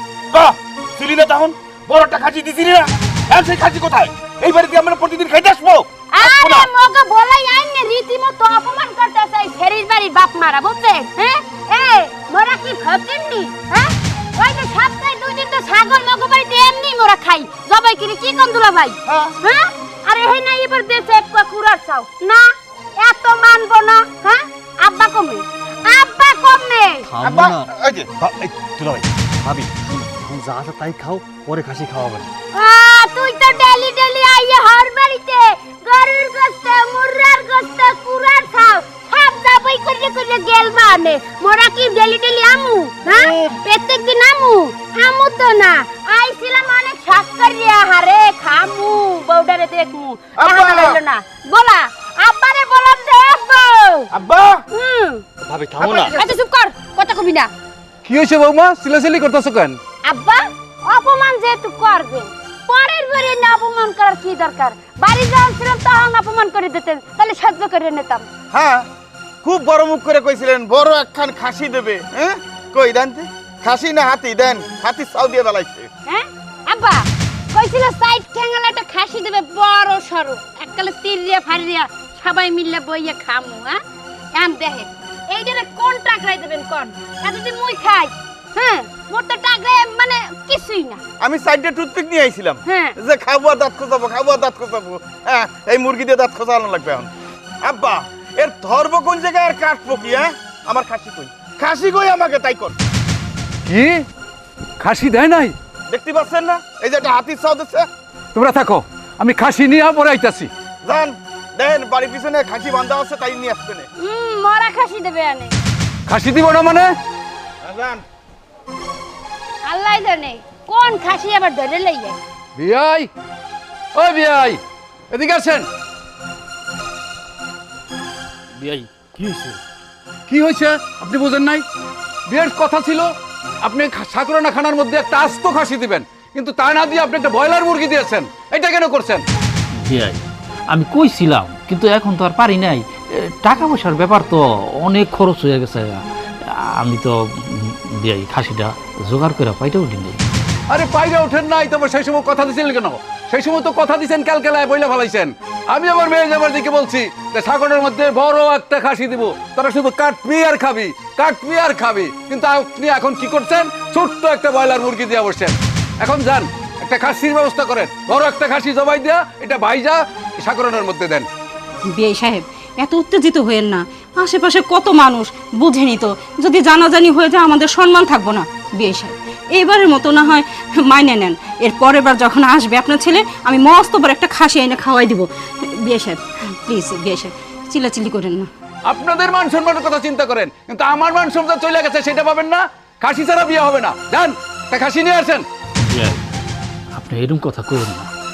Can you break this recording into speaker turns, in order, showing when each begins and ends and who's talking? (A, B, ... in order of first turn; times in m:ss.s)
0:00.3-0:06.7 A
0:06.1-0:27.1 B
0:19.0-0:19.3 A
0:27.0-0:32.3 C
0:27.2-0:28.1 A
0:32.5-0:54.1 B
0:43.0-0:43.5 A
0:50.4-0:51.0 A
0:54.1-0:54.6 A
0:54.7-0:55.2 B
0:55.4-0:56.2 C
0:55.8-0:57.5 B
0:58.0-0:59.8 D
1:00.0-1:08.2 B
1:08.5-1:08.9 A
1:09.4-1:15.9 A
1:16.1-1:23.8 B
1:24.3-1:31.0 B
1:31.2-1:37.1 A
1:32.6-1:32.9 B
1:37.6-1:42.7 A
1:43.6-1:44.0 D
1:44.8-1:45.5 D
1:45.9-1:47.9 A
1:48.3-1:50.5 D
1:50.8-1:53.9 A
1:54.0-1:55.5 B
1:56.1-1:56.9 D
1:57.6-1:58.0 A
1:59.6-2:02.2 B
2:02.6-2:03.1 D
2:03.9-2:04.6 D
2:05.1-2:05.7 D
2:08.6-2:09.6 D
2:10.3-2:11.6 D
2:12.3-2:13.1 D
2:13.6-2:19.2 D
2:19.8-2:26.0 E
2:26.8-2:30.2 E
2:30.7-2:51.3 D
2:51.9-3:08.5 F
3:08.8-3:15.4 D
3:15.8-3:16.2 E
3:16.9-3:18.1 E